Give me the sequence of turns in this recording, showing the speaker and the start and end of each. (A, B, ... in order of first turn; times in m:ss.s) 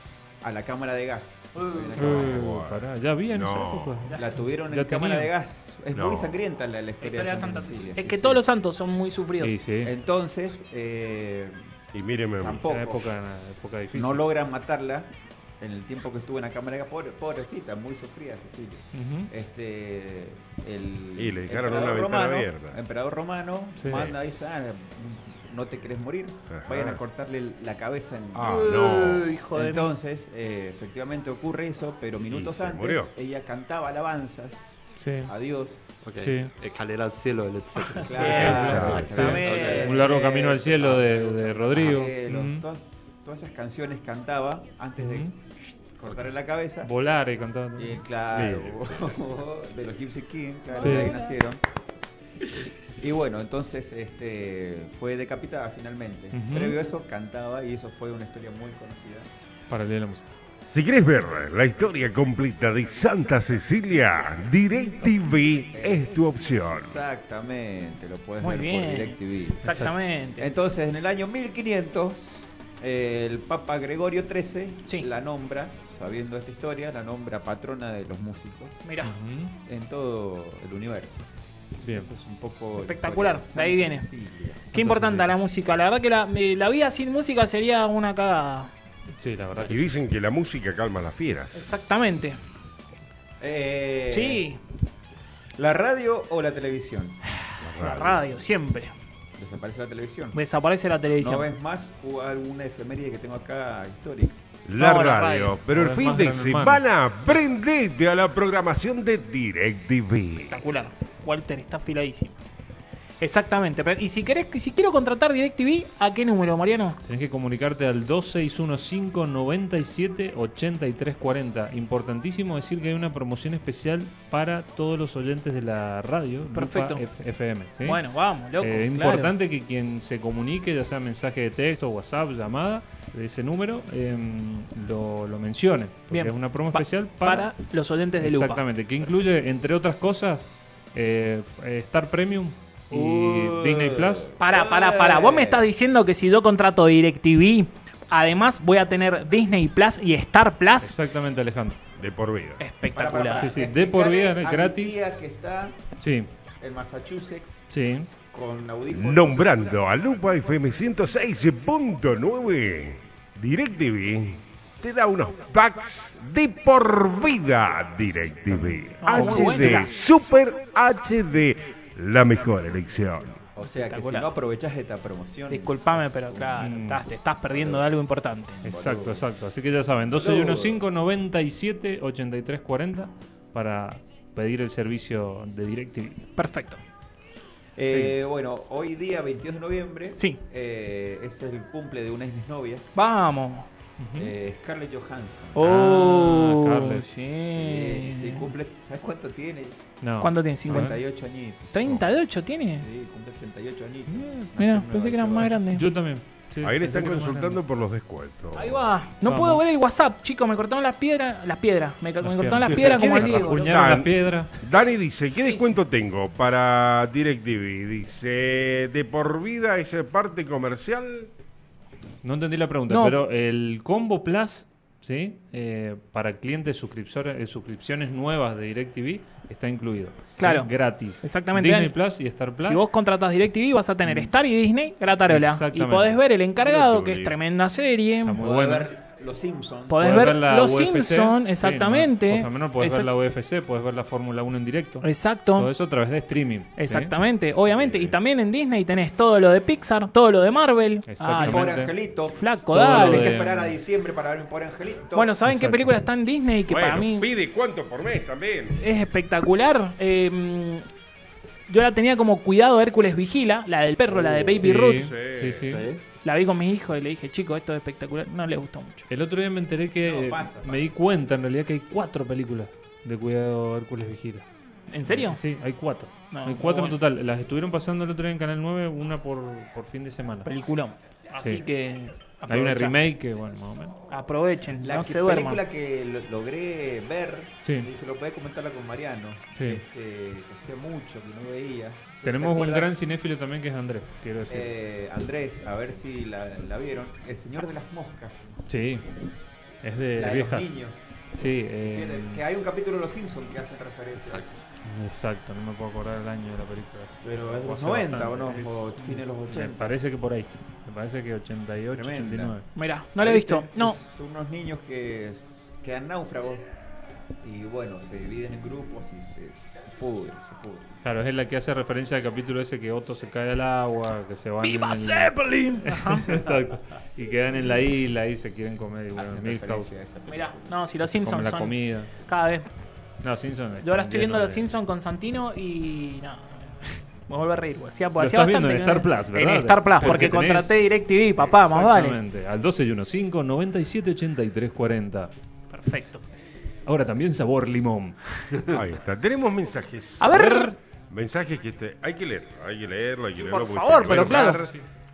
0:00.4-0:02.6 A
0:01.5-0:02.0 B
0:02.0-0:05.3 C
0:02.1-0:04.0 D
0:04.1-0:08.4 A
0:05.9-0:06.4 D
0:07.0-0:09.5 B
0:09.4-0:09.9 C
0:09.8-0:11.7 A
0:11.9-0:12.6 D
0:12.4-0:13.1 A
0:12.5-0:14.3 C
0:13.9-0:15.1 A
0:15.6-0:29.0 A
0:18.9-0:19.3 C
0:21.2-0:22.8 D
0:26.5-0:27.0 D
0:28.3-0:29.3 D
0:28.4-0:29.9 B
0:29.5-0:35.8 A
0:32.3-0:33.1 D
0:35.0-0:35.3 C
0:36.0-0:40.0 E
0:36.2-0:36.5 C
0:38.0-0:45.3 A
0:38.1-0:40.0 B
0:38.3-0:42.6 C
0:38.6-0:39.1 D
0:45.0-0:45.3 C
0:46.0-0:46.9 A
0:46.8-0:48.0 C
0:47.8-0:51.6 A
0:48.3-0:48.8 D
0:50.8-0:51.2 C
0:53.0-0:59.3 A
0:56.3-0:56.8 C
0:59.7-1:00.3 C
1:00.7-1:07.0 D
1:05.7-1:18.8 A
1:08.4-1:10.5 B
1:09.7-1:09.9 C
1:18.8-1:19.1 B
1:19.0-1:19.5 C
1:19.6-1:21.2 A
1:21.8-1:22.2 C
1:21.9-1:24.6 A
1:22.8-1:24.0 B
1:24.7-1:25.3 C
1:24.7-1:28.7 B
1:29.2-1:29.9 C
1:29.6-1:31.8 D
1:31.5-1:32.4 B
1:33.4-1:34.4 A
1:34.1-1:34.6 B
1:35.6-1:37.2 A
1:37.6-1:38.3 D
1:37.7-1:38.9 B
1:39.4-1:40.4 A
1:40.3-1:41.5 B
1:41.2-1:44.4 A
1:44.7-1:50.6 D
1:44.8-1:45.6 B
1:45.7-1:46.8 C
1:50.5-1:52.3 B
1:53.2-1:57.0 B
1:57.0-2:08.0 C
2:06.5-2:07.0 B
2:07.8-2:09.3 B
2:08.6-2:17.5 C
2:16.1-2:18.6 B
2:18.2-2:24.3 C
2:22.9-2:25.7 A
2:24.4-2:30.9 B
2:30.8-2:31.8 C
2:32.0-2:32.6 D
2:32.6-2:33.5 B
2:32.9-2:35.8 A
2:33.3-2:35.0 C
2:36.0-2:36.3 C
2:36.6-2:37.6 A
2:37.7-2:38.1 C
2:38.3-2:39.8 A
2:38.9-2:53.4 D
2:48.5-2:49.5 A
2:49.0-2:49.9 B
2:53.4-2:56.7 A
2:53.6-2:54.3 B
2:55.5-2:58.6 B
2:56.6-2:57.0 C
2:57.5-2:57.8 A
2:58.6-2:59.3 A
2:58.6-3:06.3 C
3:00.1-3:00.8 A
3:06.4-3:06.8 B
3:07.8-3:13.0 A
3:07.9-3:08.2 C
3:12.9-3:13.7 B
3:14.0-3:14.3 C
3:14.2-3:15.6 A
3:15.5-3:18.5 B
3:15.6-3:17.0 C
3:17.5-3:19.8 A
3:20.0-3:21.0 C
3:20.2-3:21.0 B
3:20.7-3:21.9 A
3:21.7-3:22.8 B
3:22.8-3:25.5 A
3:24.1-3:27.6 C
3:24.6-3:25.8 B
3:26.6-3:28.9 D
3:28.5-3:33.7 B
3:29.2-3:29.6 C
3:32.2-3:34.5 C
3:32.7-3:41.3 D
3:35.4-3:35.7 B
3:42.2-3:52.8 C
3:42.9-3:43.2 B
3:50.4-3:50.7 B
3:51.2-3:51.9 B
3:52.6-3:58.4 B
3:54.0-3:54.3 C
3:55.3-3:56.2 C
3:56.6-3:57.4 D
3:58.2-3:59.0 C
3:58.4-4:00.2 A
3:59.9-4:03.1 B
4:00.0-4:07.1 C
4:05.0-4:05.7 B
4:06.8-4:11.7 B
4:07.7-4:08.2 D
4:11.1-4:11.9 C
4:11.3-4:15.4 A
4:12.3-4:13.3 B
4:12.7-4:13.8 C
4:15.1-4:17.3 B
4:15.4-4:15.9 C
4:16.7-4:18.8 D
4:18.8-4:20.8 B
4:21.7-4:25.1 B
4:24.1-4:24.6 E
4:24.6-4:25.8 C
4:24.7-4:25.7 D
4:25.6-4:26.0 E
4:26.2-4:29.1 B
4:29.1-4:34.4 C
4:30.0-4:30.9 A
4:34.9-4:35.4 B
4:35.0-4:40.5 C
4:36.3-4:37.0 B
4:40.4-4:43.0 B
4:42.5-4:44.0 C
4:44.1-4:45.6 B
4:44.8-4:52.9 A
4:52.2-4:54.7 C
4:54.5-4:58.6 A
4:58.7-4:59.1 C
4:59.8-5:00.7 C
5:00.1-5:04.6 A
5:01.3-5:02.4 C
5:04.8-5:12.6 C
5:07.2-5:10.0 A
5:11.9-5:12.6 A
5:12.7-5:14.0 B
5:13.2-5:16.6 A
5:17.4-5:21.0 A
5:21.0-5:29.9 C
5:24.6-5:26.6 B
5:29.1-5:30.8 A
5:30.3-5:32.7 B
5:31.1-5:32.1 C
5:33.2-5:34.6 C
5:33.8-5:42.2 B
5:38.2-5:40.8 C
5:41.4-5:45.3 C
5:45.7-5:46.2 B
5:46.8-5:48.2 C
5:48.7-5:50.5 D
5:50.2-5:50.7 B
5:50.3-5:50.7 C
5:51.1-5:54.7 D
5:53.3-5:54.6 B
5:54.1-5:54.8 C